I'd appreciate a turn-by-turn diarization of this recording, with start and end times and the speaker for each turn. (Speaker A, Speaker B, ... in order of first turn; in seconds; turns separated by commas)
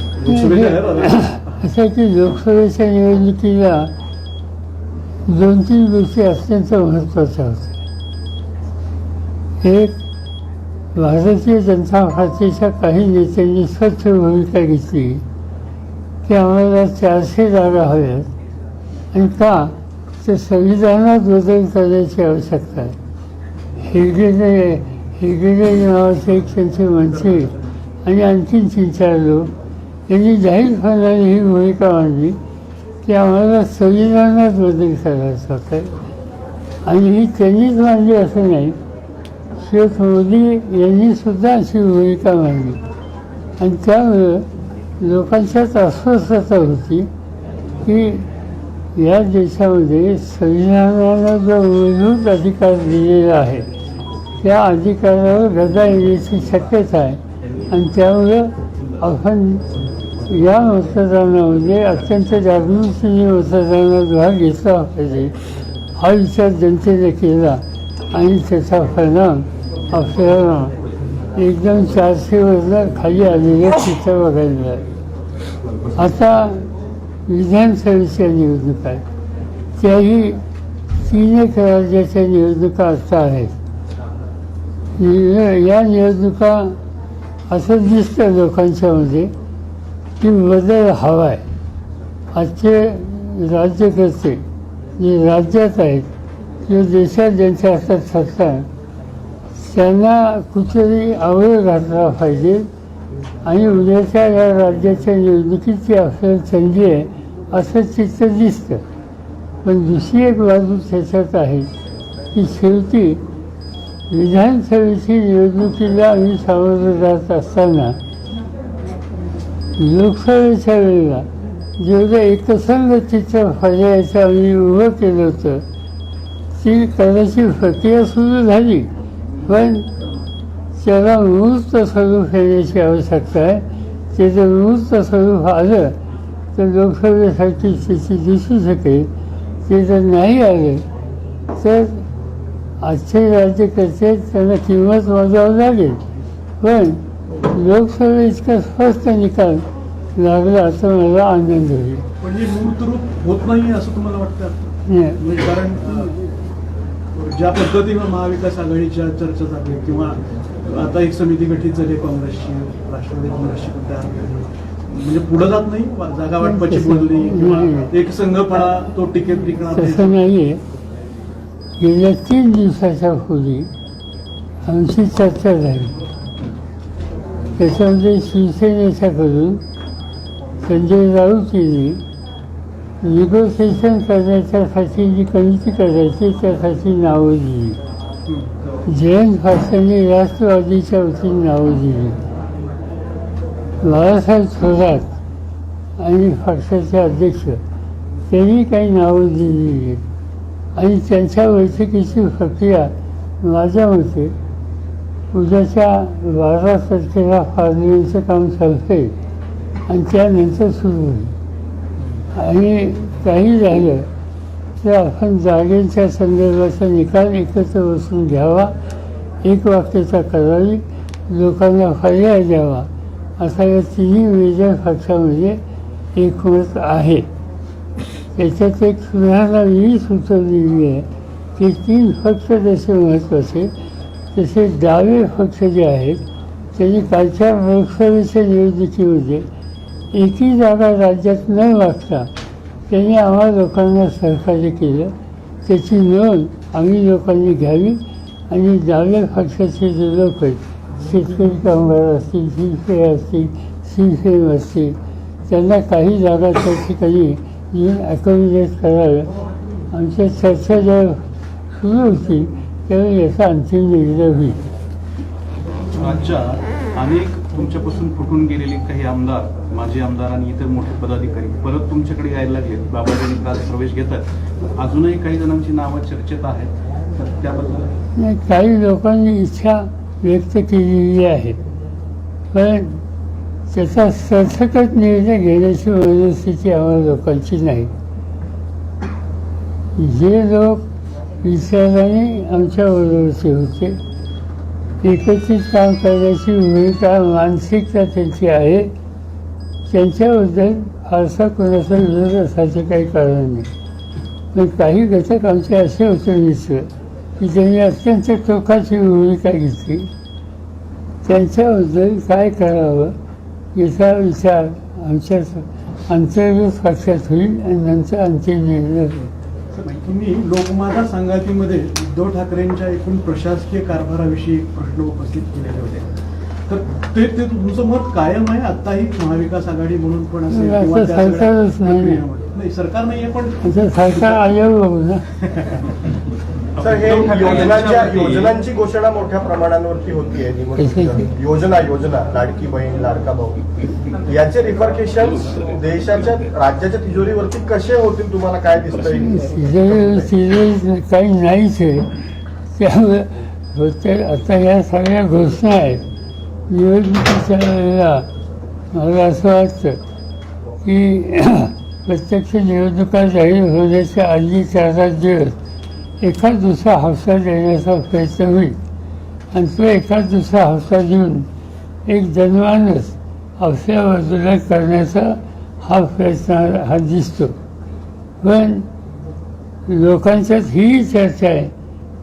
Speaker A: 0.1-1.7, Speaker B: 0.3-3.9, Speaker B: 5.3-7.8, Speaker B: 9.6-10.0, Speaker B: 11.0-15.2, Speaker B: 16.3-18.3, Speaker B: 19.1-23.0, Speaker B: 23.8-27.5, Speaker B: 28.1-29.5, Speaker B: 30.1-32.4, Speaker B: 33.0-36.0, Speaker B: 36.9-38.8, Speaker B: 39.6-42.8, Speaker B: 43.6-44.5, Speaker B: 45.0-47.1, Speaker B: 47.9-48.3, Speaker B: 49.0-53.7, Speaker B: 54.4-59.6, Speaker B: 60.3-65.3, Speaker B: 66.0-70.8, Speaker B: 71.3-74.8, Speaker B: 76.0-76.6, Speaker B: 77.3-79.0, Speaker B: 79.8-80.4, Speaker B: 81.0-83.5, Speaker B: 85.0-86.8, Speaker B: 87.5-89.3, Speaker B: 90.2-91.4, Speaker B: 92.3-94.5, Speaker B: 95.0-96.1, Speaker B: 96.7-98.7, Speaker B: 99.6-102.7, Speaker B: 103.5-108.8, Speaker B: 109.6-111.7, Speaker B: 112.3-113.2, Speaker B: 114.1-118.0, Speaker B: 119.8-121.3, Speaker B: 121.8-125.7, Speaker B: 126.6-128.9, Speaker B: 129.4-129.9, Speaker B: 130.8-136.0, Speaker B: 136.6-139.1, Speaker B: 139.7-140.8, Speaker B: 141.5-142.0, Speaker B: 142.8-146.0, Speaker B: 146.6-149.6, Speaker B: 150.2-152.0, Speaker A: 152.2-156.1, Speaker B: 154.9-155.2, Speaker B: 156.0-156.2, Speaker A: 157.2-170.2, Speaker B: 166.4-167.9, Speaker B: 169.7-170.6, Speaker B: 171.8-173.7, Speaker B: 174.7-176.0, Speaker B: 177.6-179.6, Speaker B: 180.6-182.0, Speaker B: 183.0-187.8, Speaker A: 188.3-188.6, Speaker B: 188.9-192.2, Speaker B: 193.8-195.1, Speaker B: 196.0-197.6, Speaker B: 198.3-200.0, Speaker B: 200.8-204.3, Speaker B: 205.3-209.2, Speaker B: 209.9-211.3, Speaker B: 212.3-214.1, Speaker B: 214.8-218.7, Speaker B: 219.4-225.6, Speaker B: 226.2-227.3, Speaker B: 228.4-233.7, Speaker B: 234.3-236.2, Speaker B: 236.8-239.5, Speaker B: 240.1-242.3, Speaker B: 242.9-245.1, Speaker B: 245.7-259.3, Speaker B: 259.9-264.6, Speaker C: 266.0-274.2, Speaker C: 274.8-277.9, Speaker B: 278.2-281.6, Speaker B: 282.5-283.0, Speaker B: 283.7-287.9, Speaker B: 290.0-290.8, Speaker B: 291.4-294.0, Speaker B: 295.0-298.9, Speaker B: 299.9-303.7, Speaker B: 304.5-306.9, Speaker B: 307.4-310.1, Speaker B: 311.2-313.1, Speaker B: 313.8-319.3, Speaker A: 319.8-326.1, Speaker A: 326.7-334.5, Speaker B: 330.5-332.2, Speaker B: 333.6-335.2, Speaker A: 335.4-335.8, Speaker D: 336.8-343.6, Speaker C: 336.9-338.5, Speaker A: 337.0-338.4, Speaker B: 340.8-341.3, Speaker D: 344.3-350.3, Speaker B: 349.3-352.1, Speaker B: 352.8-356.0, Speaker B: 356.7-358.3, Speaker B: 358.9-360.0, Speaker B: 360.9-365.6, Speaker B: 366.2-368.8, Speaker B: 369.5-371.5, Speaker B: 372.1-377.6, Speaker B: 378.4-378.9, Speaker B: 379.9-381.7